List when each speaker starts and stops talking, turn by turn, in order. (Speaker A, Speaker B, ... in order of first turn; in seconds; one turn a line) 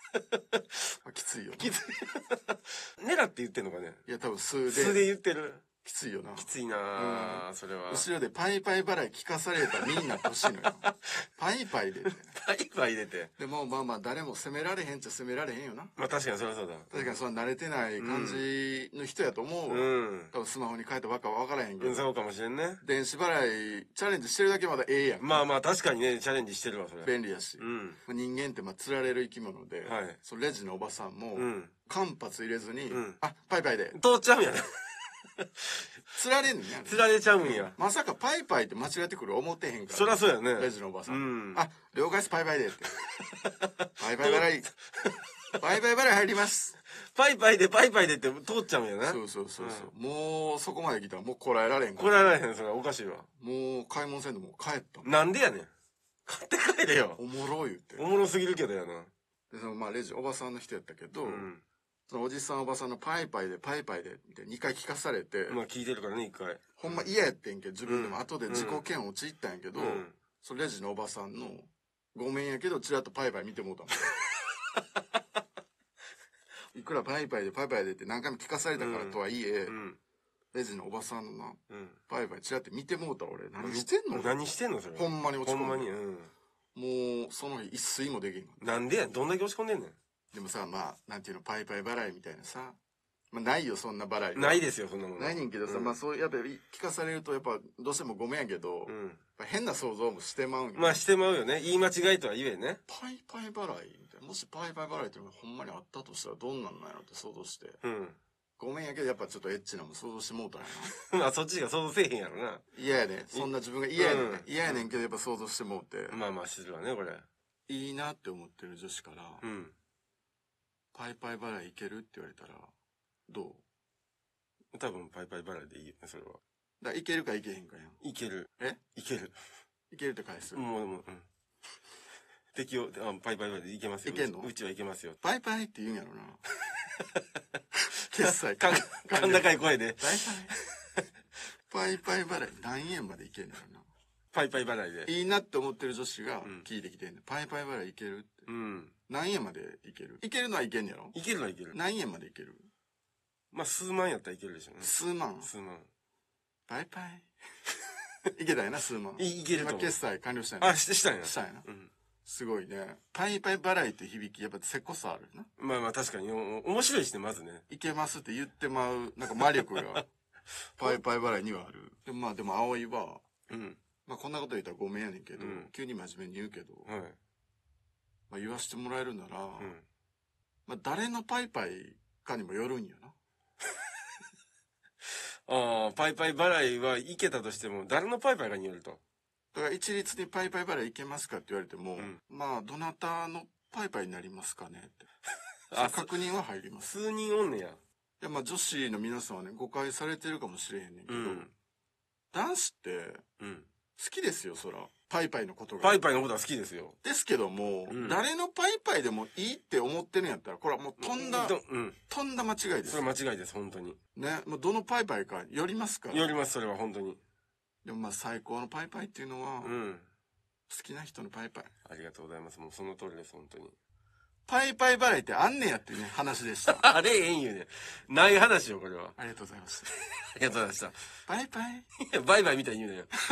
Speaker A: 1.0-1.8
Speaker B: 1.6-4.0
Speaker A: 4.0-5.1
Speaker B: 4.7-5.6
Speaker A: 5.8-12.4
Speaker B: 6.4-8.1
Speaker B: 9.8-11.0
Speaker B: 12.3-13.3
Speaker A: 13.4-16.0
Speaker B: 16.0-17.1
Speaker A: 16.9-22.1
Speaker B: 18.0-18.5
Speaker B: 19.7-20.3
Speaker B: 21.8-22.8
Speaker A: 22.8-25.4
Speaker B: 25.2-28.0
Speaker A: 27.0-34.0
Speaker B: 29.8-30.2
Speaker B: 31.4-31.7
Speaker B: 32.9-33.2
Speaker B: 33.9-35.7
Speaker A: 36.1-42.9
Speaker B: 36.9-37.8
Speaker B: 39.9-41.6
Speaker B: 42.9-44.4
Speaker A: 44.0-44.7
Speaker B: 45.0-45.6
Speaker A: 45.6-46.8
Speaker B: 46.9-49.9
Speaker A: 49.0-52.4
Speaker B: 52.0-53.3
Speaker A: 53.4-55.1
Speaker B: 55.0-55.7
Speaker B: 56.2-57.2
Speaker A: 57.2-58.2
Speaker B: 58.0-59.1
Speaker A: 59.5-61.5
Speaker B: 61.2-61.6
Speaker A: 62.1-65.6
Speaker B: 65.5-67.1
Speaker A: 66.8-74.1
Speaker B: 67.8-68.8
Speaker B: 69.8-70.2
Speaker A: 76.7-79.8
Speaker B: 78.8-80.0
Speaker A: 80.5-84.3
Speaker B: 81.7-82.0
Speaker B: 83.6-86.3
Speaker A: 84.9-85.9
Speaker A: 86.7-88.6
Speaker B: 88.6-90.0
Speaker A: 90.3-92.8
Speaker A: 93.3-94.6
Speaker B: 94.3-96.0
Speaker A: 95.2-101.1
Speaker B: 98.9-99.2
Speaker B: 100.7-102.8
Speaker A: 102.9-107.8
Speaker B: 107.8-108.2
Speaker A: 108.6-110.9
Speaker B: 110.9-112.6
Speaker A: 112.7-116.2
Speaker B: 113.3-114.9
Speaker B: 116.1-117.3
Speaker A: 117.7-119.4
Speaker B: 119.4-119.7
Speaker A: 120.9-122.7
Speaker A: 123.3-123.6
Speaker B: 124.7-126.4
Speaker A: 126.8-128.0
Speaker B: 128.0-129.3
Speaker A: 129.9-130.6
Speaker B: 130.5-131.3
Speaker B: 132.6-135.2
Speaker A: 134.1-134.5
Speaker A: 135.2-136.4
Speaker B: 136.8-137.1
Speaker A: 138.1-140.5
Speaker B: 138.3-141.0
Speaker A: 141.7-143.9
Speaker B: 144.3-145.1
Speaker A: 145.1-148.5
Speaker B: 148.5-148.9
Speaker A: 149.1-151.2
Speaker B: 151.1-151.8
Speaker A: 151.7-152.7
Speaker B: 153.5-155.9
Speaker A: 154.8-155.5
Speaker A: 156.7-157.3
Speaker A: 158.3-161.7
Speaker B: 159.2-159.9
Speaker B: 160.6-161.9
Speaker A: 162.2-165.5
Speaker B: 165.6-167.7
Speaker A: 167.7-170.1
Speaker A: 170.8-173.2
Speaker B: 173.5-173.8
Speaker A: 174.1-176.9
Speaker B: 175.4-175.7
Speaker B: 176.9-177.2
Speaker A: 178.3-179.7
Speaker B: 179.6-179.8
Speaker A: 180.7-183.2
Speaker B: 185.5-189.0
Speaker A: 189.5-195.1
Speaker B: 195.7-196.1
Speaker A: 195.7-197.0
Speaker B: 196.9-197.8
Speaker A: 198.2-201.5
Speaker B: 201.1-201.5
Speaker A: 202.3-203.2
Speaker B: 203.4-203.7
Speaker A: 204.0-206.1
Speaker B: 205.8-207.0
Speaker A: 207.0-211.6
Speaker B: 207.9-208.2
Speaker B: 211.0-212.0
Speaker A: 212.1-213.0
Speaker B: 212.8-214.0
Speaker A: 214.2-216.3
Speaker B: 216.1-217.2
Speaker A: 217.8-219.8
Speaker B: 219.6-220.1
Speaker A: 220.7-221.7
Speaker B: 221.9-223.8
Speaker A: 224.5-226.9
Speaker B: 226.7-229.2
Speaker A: 229.2-229.9
Speaker B: 230.3-231.0
Speaker A: 231.3-231.9
Speaker B: 232.0-233.1